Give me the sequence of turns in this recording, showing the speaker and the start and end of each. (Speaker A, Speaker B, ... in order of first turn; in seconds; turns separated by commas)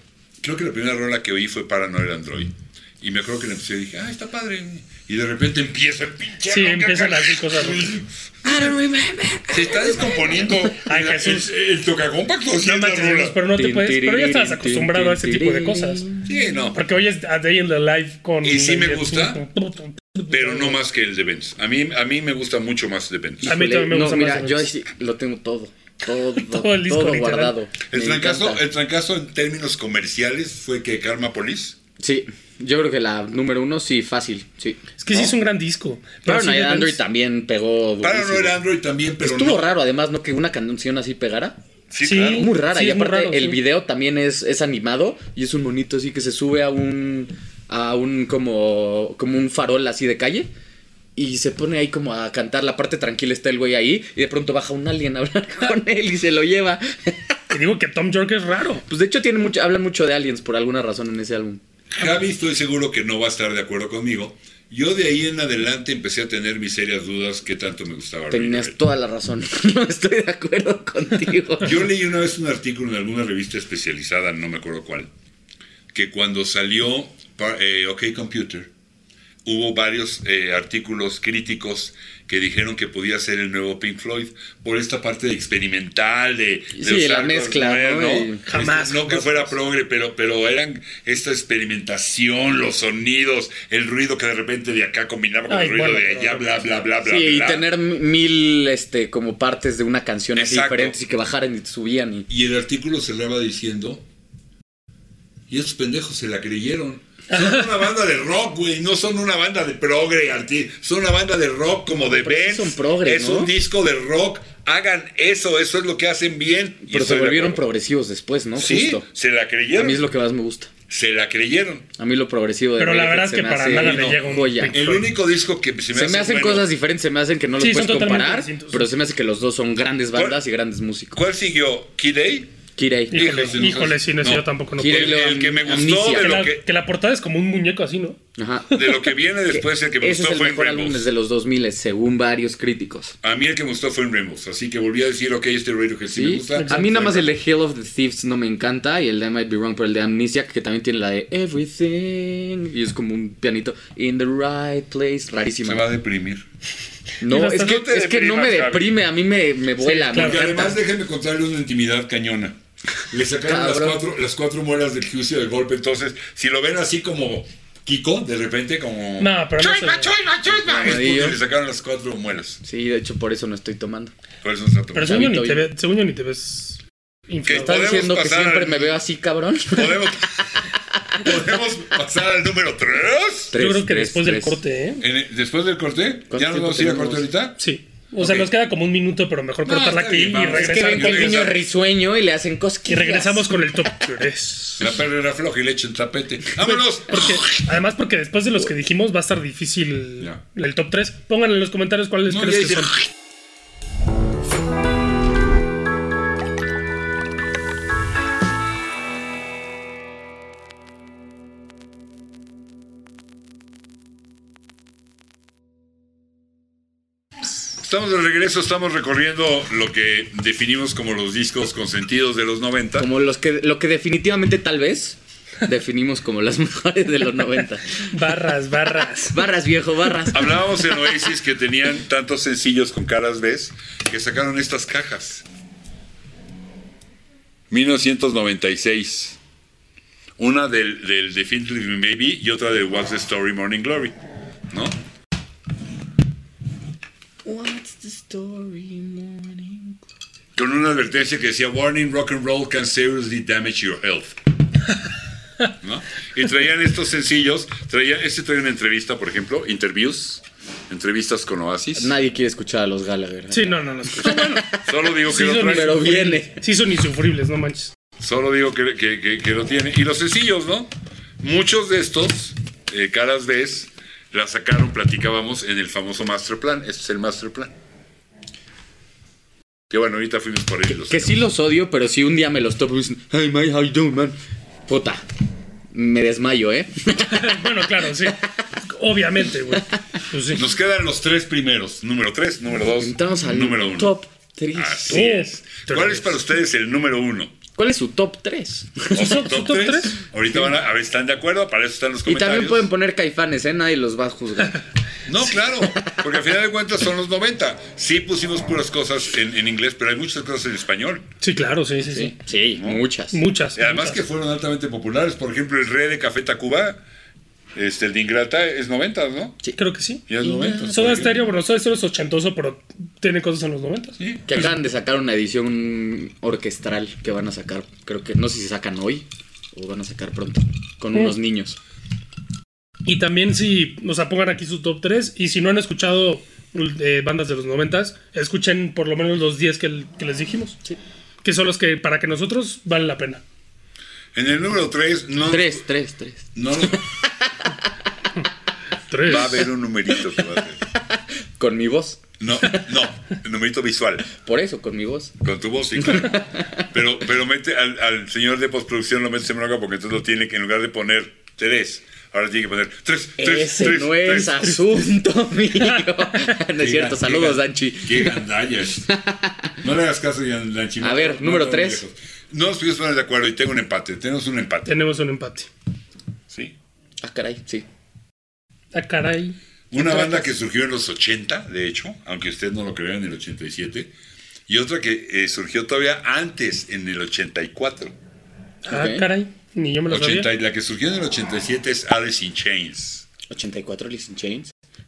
Speaker A: 0.4-8.8, Speaker B: 6.5-7.9, Speaker C: 8.4-10.5, Speaker A: 9.5-13.4, Speaker B: 10.8-11.5, Speaker B: 12.6-16.1, Speaker C: 13.5-16.3, Speaker A: 16.2-16.8, Speaker B: 16.7-20.8, Speaker A: 18.4-19.4, Speaker A: 20.3-23.5, Speaker C: 23.4-28.6, Speaker B: 23.4-24.7, Speaker B: 26.3-27.5, Speaker A: 27.9-31.8, Speaker C: 32.0-34.8, Speaker B: 35.0-37.0, Speaker C: 36.2-38.6, Speaker A: 38.0-39.7, Speaker C: 39.2-41.5, Speaker A: 41.9-42.5, Speaker B: 42.0-43.6, Speaker C: 42.3-50.5, Speaker C: 51.1-57.4, Speaker B: 57.5-58.8, Speaker C: 58.9-61.6, Speaker A: 61.9-68.8, Speaker C: 68.3-71.8, Speaker A: 71.6-75.1, Speaker A: 75.9-78.7, Speaker A: 79.4-97.6, Speaker C: 86.7-88.5, Speaker B: 88.5-89.5, Speaker B: 95.5-96.5, Speaker C: 97.0-102.3, Speaker A: 100.3-101.0, Speaker A: 102.3-104.0, Speaker A: 105.5-117.6, Speaker B: 107.3-107.8, Speaker C: 111.9-113.5, Speaker C: 116.8-119.0, Speaker A: 118.5-120.0, Speaker C: 119.7-120.7, Speaker A: 120.9-121.9, Speaker C: 122.0-125.0, Speaker B: 122.8-125.0, Speaker A: 123.7-126.7, Speaker C: 125.9-131.2, Speaker B: 127.6-128.9, Speaker A: 130.1-130.4, Speaker A: 131.1-132.5, Speaker C: 132.8-133.3, Speaker B: 133.1-135.4, Speaker A: 133.1-136.6, Speaker C: 134.8-136.4, Speaker B: 136.0-138.2, Speaker C: 138.4-138.7, Speaker A: 138.7-141.1, Speaker C: 139.5-143.2, Speaker A: 143.2-147.3, Speaker C: 146.1-155.8, Speaker B: 146.5-146.8, Speaker A: 155.6-156.4, Speaker C: 157.2-160.8, Speaker B: 157.2-157.8, Speaker A: 157.5-159.0, Speaker B: 159.8-160.5, Speaker A: 160.0-162.6, Speaker A: 163.1-172.6, Speaker C: 163.4-164.0, Speaker B: 169.2-170.1, Speaker C: 170.5-171.4, Speaker C: 172.6-174.1, Speaker A: 174.4-175.3, Speaker B: 174.9-177.9, Speaker C: 175.0-175.6, Speaker A: 177.4-179.0, Speaker C: 177.6-180.1, Speaker A: 179.7-180.5, Speaker A: 181.1-183.5, Speaker C: 183.5-184.6, Speaker B: 183.5-185.0, Speaker A: 185.0-187.6, Speaker C: 186.3-187.2, Speaker B: 187.6-191.5, Speaker A: 188.2-188.5, Speaker A: 189.6-191.6, Speaker C: 190.5-193.5, Speaker B: 192.9-194.9, Speaker A: 194.8-197.7, Speaker B: 196.6-202.9, Speaker A: 202.3-203.1, Speaker A: 217.8-223.1, Speaker C: 223.0-228.1, Speaker B: 228.1-229.4, Speaker C: 229.1-230.8, Speaker A: 230.3-235.4, Speaker A: 237.7-239.4, Speaker A: 240.4-244.1, Speaker A: 244.7-245.0, Speaker C: 247.4-250.0, Speaker A: 250.5-254.4, Speaker A: 255.8-262.1, Speaker C: 261.9-264.8, Speaker B: 263.5-264.6, Speaker A: 264.8-266.1, Speaker B: 265.2-267.9, Speaker C: 265.6-266.6, Speaker A: 268.2-277.7, Speaker A: 279.9-281.4, Speaker C: 280.9-285.2, Speaker C: 285.9-288.3, Speaker B: 287.2-290.6, Speaker A: 290.5-294.1, Speaker C: 292.9-295.2, Speaker A: 294.7-297.6, Speaker B: 295.1-296.4, Speaker C: 297.7-299.4, Speaker A: 299.1-302.9, Speaker B: 299.1-300.2, Speaker C: 302.2-304.8, Speaker A: 305.3-311.2, Speaker C: 305.8-306.2, Speaker B: 311.4-312.3, Speaker C: 312.0-313.4, Speaker A: 312.8-313.0, Speaker B: 313.3-314.2, Speaker A: 313.7-317.0, Speaker A: 317.7-319.6, Speaker B: 319.8-320.3, Speaker A: 320.3-321.5, Speaker C: 320.4-321.2, Speaker B: 320.8-324.2, Speaker A: 324.2-324.7, Speaker C: 324.5-331.8, Speaker B: 333.0-340.8, Speaker B: 341.4-343.4, Speaker A: 344.3-345.8, Speaker C: 345.5-347.7, Speaker A: 346.5-347.1, Speaker B: 349.1-349.6, Speaker A: 349.2-350.8, Speaker C: 350.9-352.8, Speaker A: 352.4-354.2, Speaker C: 354.3-355.3, Speaker A: 355.4-364.8, Speaker C: 356.0-356.9, Speaker C: 363.4-368.4, Speaker B: 365.8-366.5, Speaker A: 366.8-369.1, Speaker C: 369.1-369.8, Speaker A: 369.8-374.9, Speaker C: 371.0-372.0, Speaker B: 374.9-375.7, Speaker A: 376.5-376.8, Speaker C: 377.2-377.9, Speaker B: 378.9-380.5, Speaker A: 379.9-384.1, Speaker A: 384.7-388.1, Speaker B: 388.9-390.5, Speaker C: 388.9-389.3, Speaker A: 390.1-393.2, Speaker C: 393.5-394.7